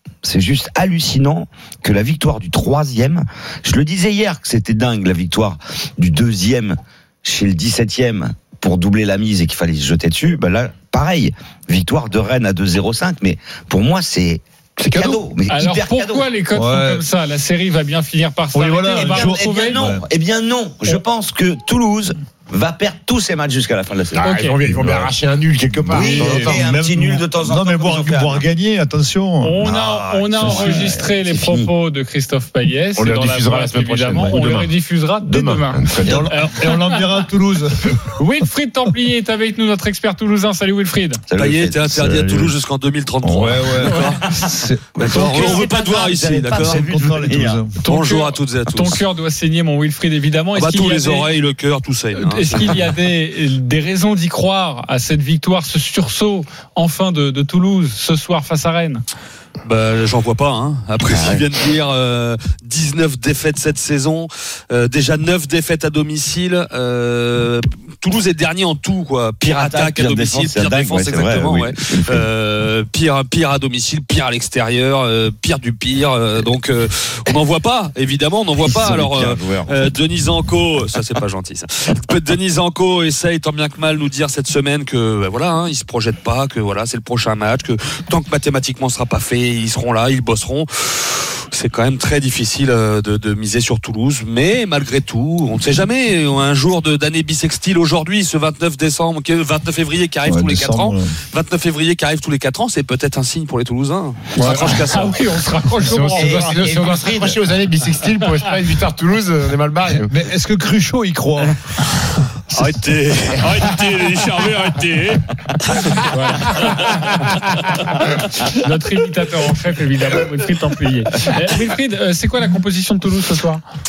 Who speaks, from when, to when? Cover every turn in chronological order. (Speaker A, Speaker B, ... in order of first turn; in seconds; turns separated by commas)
Speaker A: 0.2-16.3, Speaker B: 14.9-15.2, Speaker C: 15.5-19.8, Speaker D: 16.5-17.0, Speaker D: 18.5-20.1, Speaker A: 18.9-24.3, Speaker B: 24.1-26.7, Speaker C: 24.2-24.6, Speaker A: 25.9-28.4, Speaker D: 25.9-29.6, Speaker C: 29.4-37.1, Speaker A: 29.6-31.7, Speaker B: 33.0-34.7, Speaker B: 35.2-36.2, Speaker D: 36.0-38.0, Speaker C: 38.2-41.2, Speaker A: 41.3-42.4, Speaker E: 41.4-44.2, Speaker D: 41.9-42.5, Speaker D: 43.2-45.6, Speaker A: 44.2-47.6, Speaker E: 45.0-47.2, Speaker C: 45.2-45.6, Speaker D: 46.5-47.8, Speaker E: 47.9-49.0, Speaker C: 47.9-51.3, Speaker E: 50.5-52.9, Speaker C: 52.1-59.0, Speaker E: 59.6-105.3, Speaker A: 61.0-61.5, Speaker A: 69.4-72.3, Speaker A: 78.6-79.9, Speaker D: 100.3-101.2, Speaker C: 104.4-106.7, Speaker B: 105.8-110.1, Speaker A: 106.2-107.3, Speaker D: 109.9-111.5, Speaker E: 112.5-115.2, Speaker C: 116.0-117.8, Speaker C: 118.4-123.6